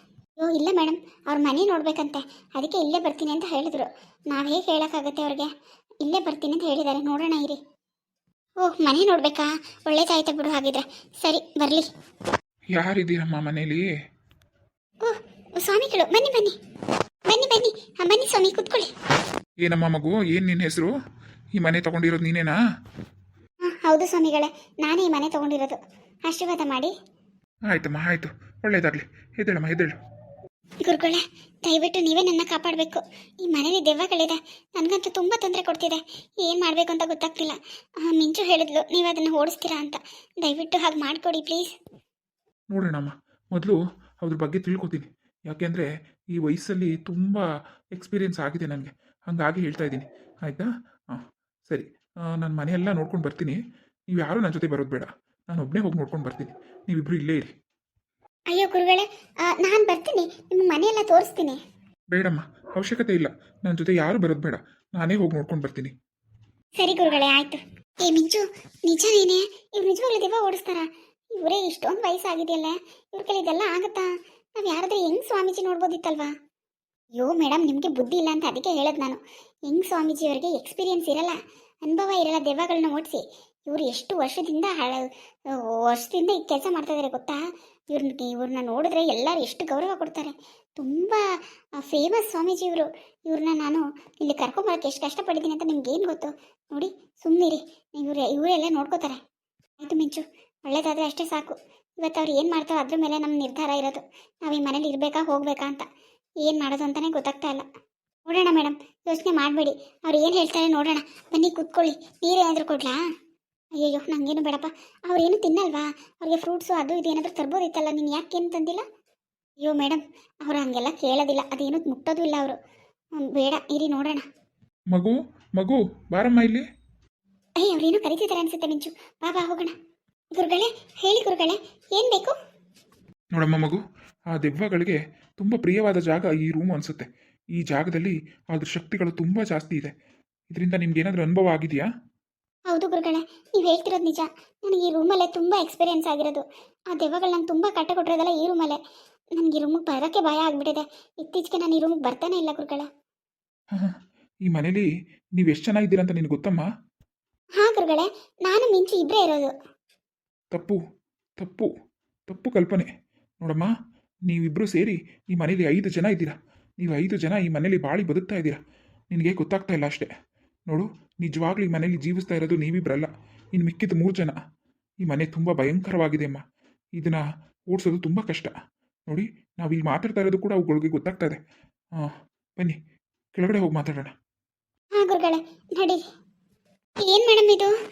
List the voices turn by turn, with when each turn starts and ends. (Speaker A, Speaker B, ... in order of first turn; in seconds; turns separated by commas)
Speaker A: 0.4-5.5, Speaker A: 6.0-7.6, Speaker A: 8.6-11.9, Speaker B: 12.8-13.8, Speaker A: 15.0-16.6, Speaker A: 17.3-18.9, Speaker B: 19.6-20.9, Speaker B: 21.6-22.6, Speaker A: 23.6-26.9, Speaker B: 27.7-29.9, Speaker A: 30.8-41.7, Speaker B: 42.7-53.6, Speaker B: 54.1-57.5, Speaker A: 58.5-61.6, Speaker B: 62.1-65.9, Speaker A: 66.8-76.3, Speaker A: 77.2-91.2, Speaker A: 91.8-99.2, Speaker A: 99.8-105.9, Speaker A: 106.4-107.7, Speaker A: 108.3-113.0, Speaker A: 113.8-118.8, Speaker A: 119.6-122.6, Speaker A: 123.2-124.2, Speaker B: 124.9-126.6, Speaker A: 127.6-129.8, Speaker A: 130.3-132.4, Speaker B: 133.3-133.8, Speaker B: 134.3-139.9, Speaker B: 140.5-141.9, Speaker A: 142.7-148.8, Speaker A: 149.4-152.9, Speaker B: 153.7-156.7, Speaker A: 157.6-159.5, Speaker B: 160.5-160.8, Speaker B: 161.4-161.7, Speaker B: 162.3-162.9, Speaker B: 163.4-163.7, Speaker B: 164.3-170.1, Speaker B: 170.7-174.4, Speaker B: 175.0-176.4, Speaker B: 177.0-178.5, Speaker B: 179.1-181.4, Speaker B: 182.0-182.8, Speaker B: 183.4-184.1, Speaker A: 185.0-186.0, Speaker A: 187.1-187.7